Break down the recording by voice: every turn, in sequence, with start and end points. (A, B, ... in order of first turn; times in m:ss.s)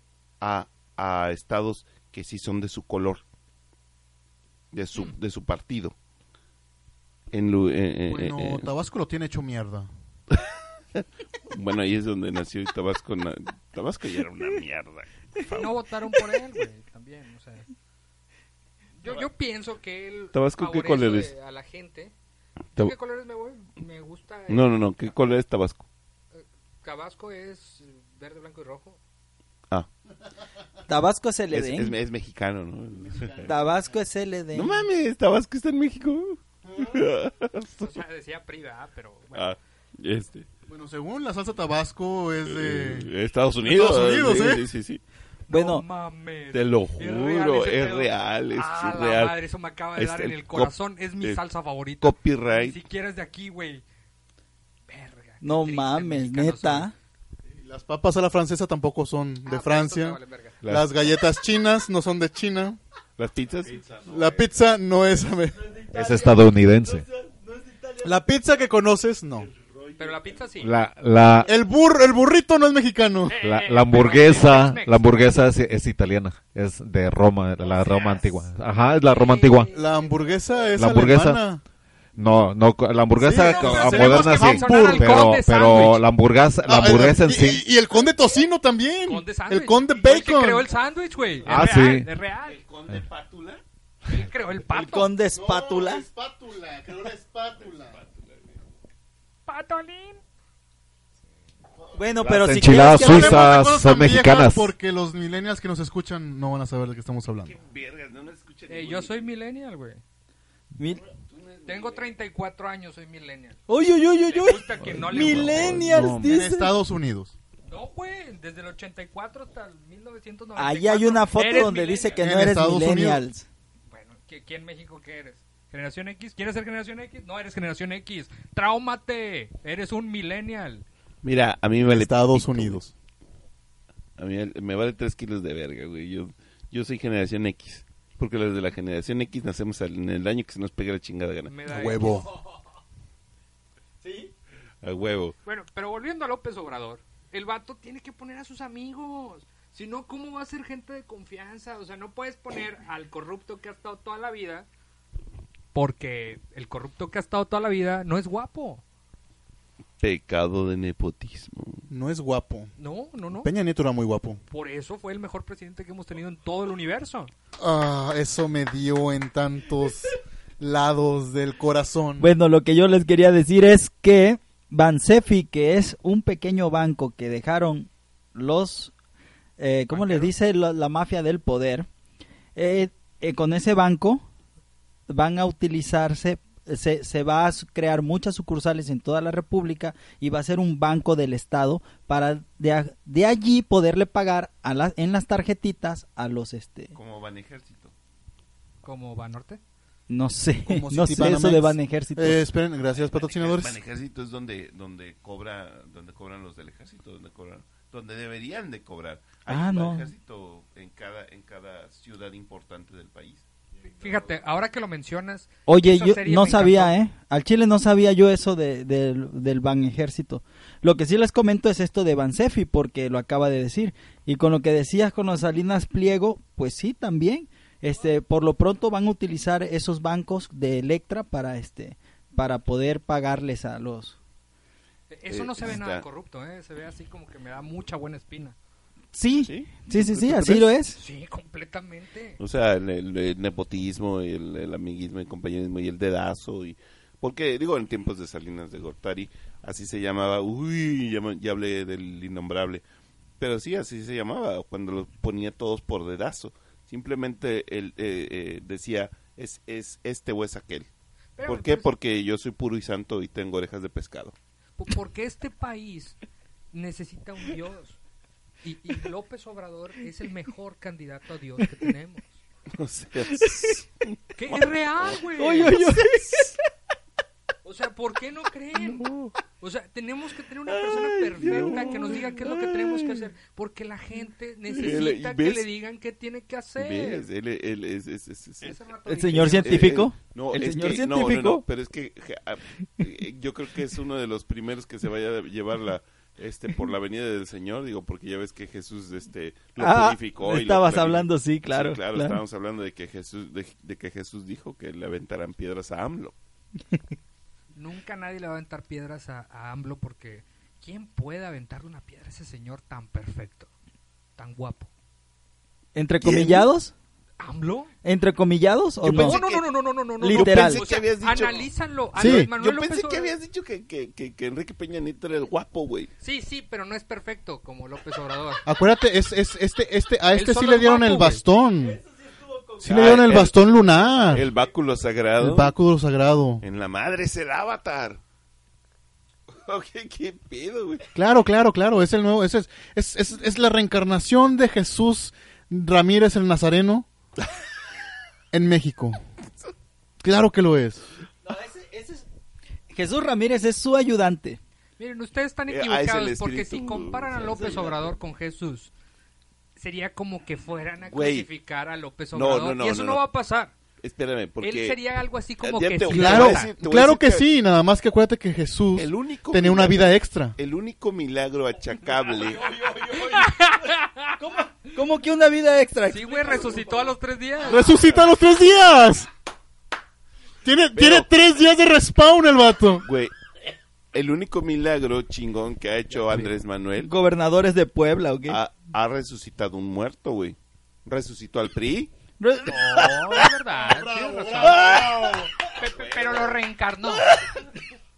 0:00.4-0:03.2 A
0:04.7-0:05.9 A
0:07.3-0:08.7 A
0:08.1-0:09.9 B
0:11.0-0:15.8 A
0:15.5-0:17.7 C
0:19.0-0:22.1 C
0:20.3-0:21.3 A
0:22.8-0:24.7 C
0:24.5-0:25.9 A
0:26.3-0:29.0 C
0:30.9-0:32.0 D
0:31.5-0:33.5 A
0:33.4-0:34.8 D
0:34.5-0:37.9 A
0:37.8-0:39.6 C
0:39.3-0:40.5 A
0:40.7-0:43.1 B
0:42.4-0:45.0 A
0:43.6-0:44.7 B
0:45.5-0:53.8 C
0:45.5-0:45.8 D
0:46.5-0:49.4 A
0:50.0-0:51.4 A
0:52.0-0:52.8 A
0:54.9-0:56.9 C
0:55.4-0:56.9 D
0:57.6-1:02.8 B
0:59.4-1:00.6 C
1:00.6-1:00.9 E
1:03.2-1:04.0 A
1:04.0-1:05.8 B
1:05.9-1:07.0 E
1:08.0-1:09.5 B
1:10.0-1:10.7 C
1:10.6-1:11.5 E
1:11.4-1:13.4 B
1:13.3-1:15.4 C
1:13.4-1:19.7 E
1:17.7-1:18.5 C
1:19.0-1:20.1 C
1:19.7-1:21.6 B
1:20.7-1:21.4 E
1:22.2-1:27.6 E
1:23.2-1:25.4 B
1:23.3-1:26.0 C
1:26.7-1:30.7 B
1:29.0-1:32.6 C
1:31.5-1:32.1 E
1:32.4-1:33.6 A
1:34.1-1:35.1 C
1:34.7-1:36.0 D
1:35.3-1:38.0 B
1:37.9-1:38.4 A
1:39.4-1:40.2 C
1:41.8-1:42.7 A
1:41.9-1:43.6 D
1:42.3-1:44.7 E
1:42.8-1:47.6 B
1:47.4-1:49.3 A
1:48.7-1:50.0 C
1:50.8-1:51.0 D
1:51.3-1:52.1 A
1:51.6-1:53.6 C
1:53.7-1:56.7 D
1:54.3-1:55.9 C
1:55.1-1:56.2 A
1:55.8-1:56.2 E
1:55.9-1:57.3 B
1:57.7-2:02.2 C
2:00.6-2:03.4 D
2:02.2-2:03.2 B
2:03.9-2:10.8 C
2:11.2-2:12.8 A
2:11.8-2:12.9 B
2:14.2-2:21.5 A
2:21.5-2:22.3 C
2:21.7-2:22.3 B
2:24.8-2:25.4 A
2:25.4-2:34.7 C
2:35.7-2:38.8 C
2:40.0-2:41.8 A
2:41.9-2:42.7 B
2:42.8-2:43.5 C
2:43.4-2:44.4 B
2:44.5-2:47.3 C
2:47.6-2:52.3 B
2:52.2-2:58.9 D
2:59.6-3:01.9 D
2:59.9-3:00.3 C
3:02.6-3:04.2 D
3:05.1-3:16.9 D
3:16.9-3:17.9 A
3:18.8-3:19.6 C
3:20.1-3:22.4 D
3:20.6-3:23.8 B
3:22.9-3:33.4 A
3:29.5-3:30.1 D
3:34.0-3:36.9 C
3:34.0-3:34.3 A
3:35.6-3:54.2 D
3:55.1-3:58.6 C
3:55.3-3:56.0 A
3:59.1-4:01.0 D
3:59.4-4:00.7 A
4:01.0-4:02.4 C
4:02.4-4:12.8 A
4:13.4-4:20.9 A
4:21.4-4:21.9 C
4:21.4-4:24.3 A
4:24.8-4:26.2 C
4:26.7-4:28.0 C
4:28.6-4:32.4 C
4:32.7-4:35.1 A
4:33.3-4:33.8 D
4:34.4-4:35.9 C
4:35.4-4:36.6 D
4:37.6-4:39.1 C
4:39.0-4:39.3 A
4:39.6-4:47.3 C
4:40.7-4:41.8 D
4:41.4-4:42.2 A
4:44.7-4:45.6 A
4:46.8-4:48.7 A
4:48.6-4:50.0 C
4:49.1-4:51.6 D
4:49.3-5:06.3 A
4:59.8-5:02.4 D
5:07.7-5:13.7 C
5:14.4-5:14.9 C
5:15.9-5:16.9 D
5:16.2-5:16.7 A
5:17.4-5:17.9 C
5:18.0-5:19.4 D
5:19.0-5:19.4 B
5:19.0-5:23.3 C
5:19.1-5:19.6 A
5:20.2-5:20.8 D
5:20.3-5:26.1 A
5:22.2-5:22.5 B
5:26.2-5:28.6 C
5:28.6-5:32.0 B
5:30.3-5:31.4 C
5:32.8-5:34.5 B
5:32.8-5:33.6 A
5:34.2-5:35.7 A
5:35.4-5:36.6 B
5:36.6-5:38.2 A
5:39.5-5:41.0 A
5:41.1-5:47.0 B
5:48.5-5:49.2 B
5:50.2-5:51.0 B
5:51.5-5:52.2 D
5:52.9-5:54.6 D
5:55.0-5:58.9 C
5:55.7-5:58.2 A
5:59.8-6:03.7 C
6:01.0-6:01.5 A
6:02.3-6:03.2 A
6:04.0-6:05.0 A
6:04.6-6:06.7 C
6:05.6-6:07.5 A
6:06.1-6:10.6 B
6:08.9-6:12.8 A
6:13.1-6:14.4 C
6:14.4-6:16.8 D
6:16.0-6:18.0 C
6:17.6-6:19.3 B
6:20.6-6:23.1 B
6:20.9-6:21.3 A
6:23.0-6:23.3 A
6:24.1-6:27.1 A
6:27.0-6:28.6 D
6:28.5-6:32.1 A
6:32.4-6:33.2 D
6:32.7-6:37.3 C
6:33.9-6:35.5 B
6:34.6-6:36.6 A
6:37.2-6:37.6 A